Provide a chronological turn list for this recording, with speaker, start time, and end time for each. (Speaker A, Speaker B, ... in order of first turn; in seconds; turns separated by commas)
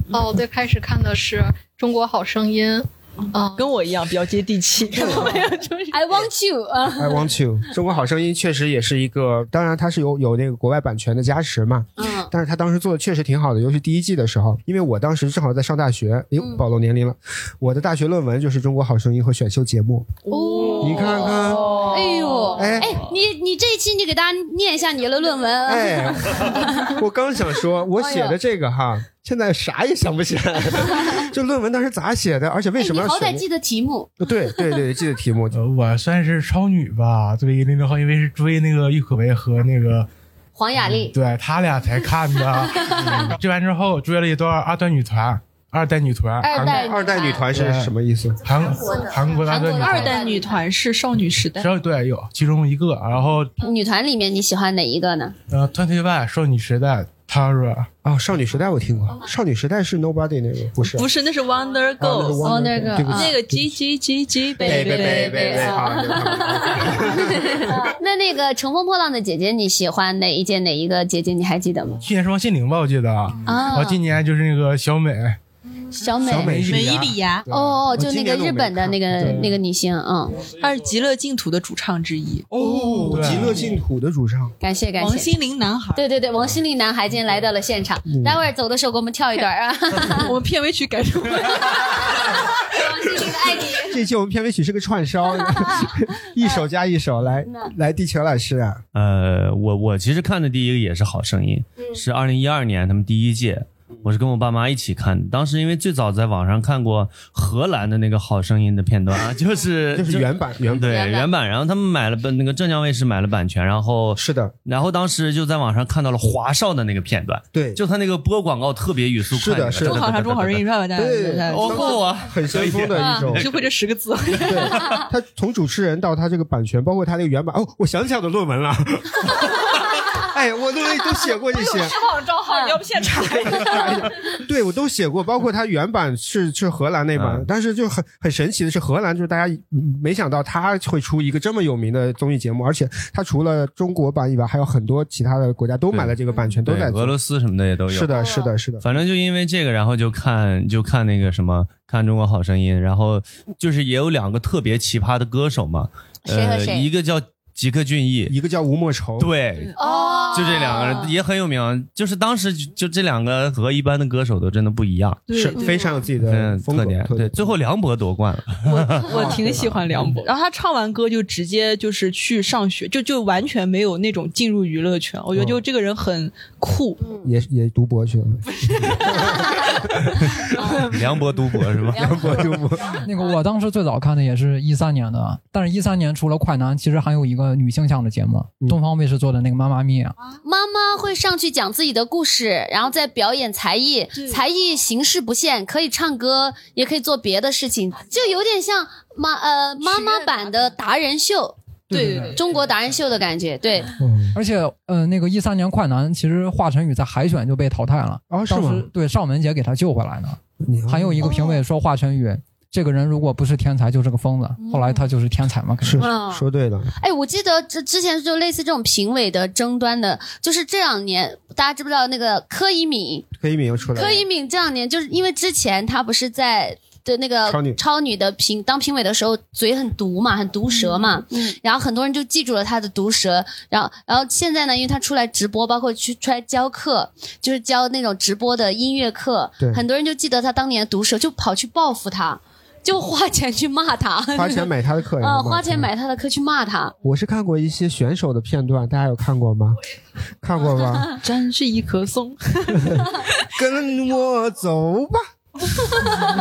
Speaker A: 0.1-3.7, Speaker B: 3.5-6.3, Speaker C: 5.9-7.3, Speaker D: 7.0-20.1, Speaker C: 12.0-12.3, Speaker B: 20.2-22.7, Speaker C: 20.3-27.0, Speaker D: 20.8-21.7, Speaker D: 22.6-22.9, Speaker D: 25.6-33.4, Speaker C: 28.0-28.4, Speaker C: 32.8-34.2, Speaker D: 34.2-35.6, Speaker E: 35.5-40.1, Speaker C: 40.6-41.1, Speaker E: 41.0-46.7, Speaker C: 46.4-47.5, Speaker D: 46.5-48.4, Speaker E: 47.4-50.2, Speaker C: 48.8-50.6, Speaker B: 49.7-51.7, Speaker E: 51.6-53.5, Speaker C: 53.6-55.4, Speaker E: 55.5-57.9, Speaker D: 58.0-61.1, Speaker B: 60.9-65.8, Speaker D: 62.0-63.7, Speaker C: 62.4-63.4, Speaker D: 64.6-67.8, Speaker C: 64.6-72.0, Speaker E: 72.0-75.4, Speaker C: 73.5-74.0, Speaker C: 75.9-76.8, Speaker D: 76.2-79.5, Speaker E: 76.3-77.2, Speaker B: 76.7-77.5, Speaker C: 77.5-80.4, Speaker B: 80.5-83.4, Speaker D: 82.5-84.5, Speaker E: 83.1-83.6, Speaker C: 84.6-85.3, Speaker B: 85.0-86.0, Speaker C: 85.9-90.3, Speaker D: 88.1-88.4, Speaker B: 90.1-92.0, Speaker C: 92.6-94.0, Speaker D: 93.9-98.8, Speaker C: 95.4-96.6, Speaker C: 97.5-97.7, Speaker F: 99.0-120.7, Speaker D: 109.9-110.9, Speaker C: 110.8-111.3, Speaker D: 114.2-114.5, Speaker D: 117.5-117.8, Speaker D: 119.3-120.0, Speaker B: 119.8-122.2, Speaker D: 121.0-123.5, Speaker F: 121.5-123.7, Speaker B: 123.1-124.9, Speaker D: 124.4-129.5, Speaker D: 130.2-132.0, Speaker B: 131.4-134.1, Speaker C: 132.5-132.8, Speaker D: 133.4-147.2, Speaker F: 137.2-137.5, Speaker F: 145.9-148.1, Speaker D: 147.9-148.8, Speaker F: 148.8-158.3, Speaker C: 156.3-156.9, Speaker D: 158.3-159.3, Speaker F: 159.2-165.2, Speaker C: 159.8-161.1, Speaker B: 160.0-160.3, Speaker B: 165.3-165.8, Speaker D: 165.3-167.6, Speaker F: 166.2-169.4, Speaker B: 168.7-177.1, Speaker D: 169.1-170.1, Speaker D: 175.3-175.6, Speaker C: 177.0-177.3, Speaker D: 177.2-180.4, Speaker B: 178.5-179.8, Speaker B: 180.4-181.4, Speaker F: 180.9-182.4, Speaker D: 181.9-183.0, Speaker C: 181.9-182.5, Speaker G: 183.0-190.2, Speaker C: 190.4-201.6, Speaker B: 194.2-194.4, Speaker B: 199.9-200.2, Speaker D: 201.9-202.4, Speaker B: 201.9-202.4, Speaker C: 202.3-203.9, Speaker D: 204.0-204.4, Speaker G: 204.3-216.1, Speaker D: 208.3-208.9, Speaker D: 210.6-211.3, Speaker C: 211.2-211.6, Speaker D: 215.8-216.9, Speaker C: 216.0-216.5, Speaker C: 217.0-223.3, Speaker D: 223.4-224.2, Speaker C: 223.9-246.9, Speaker D: 227.5-227.8, Speaker D: 244.3-245.9, Speaker D: 247.0-249.8, Speaker D: 250.4-251.2, Speaker B: 251.2-253.4, Speaker D: 252.9-255.2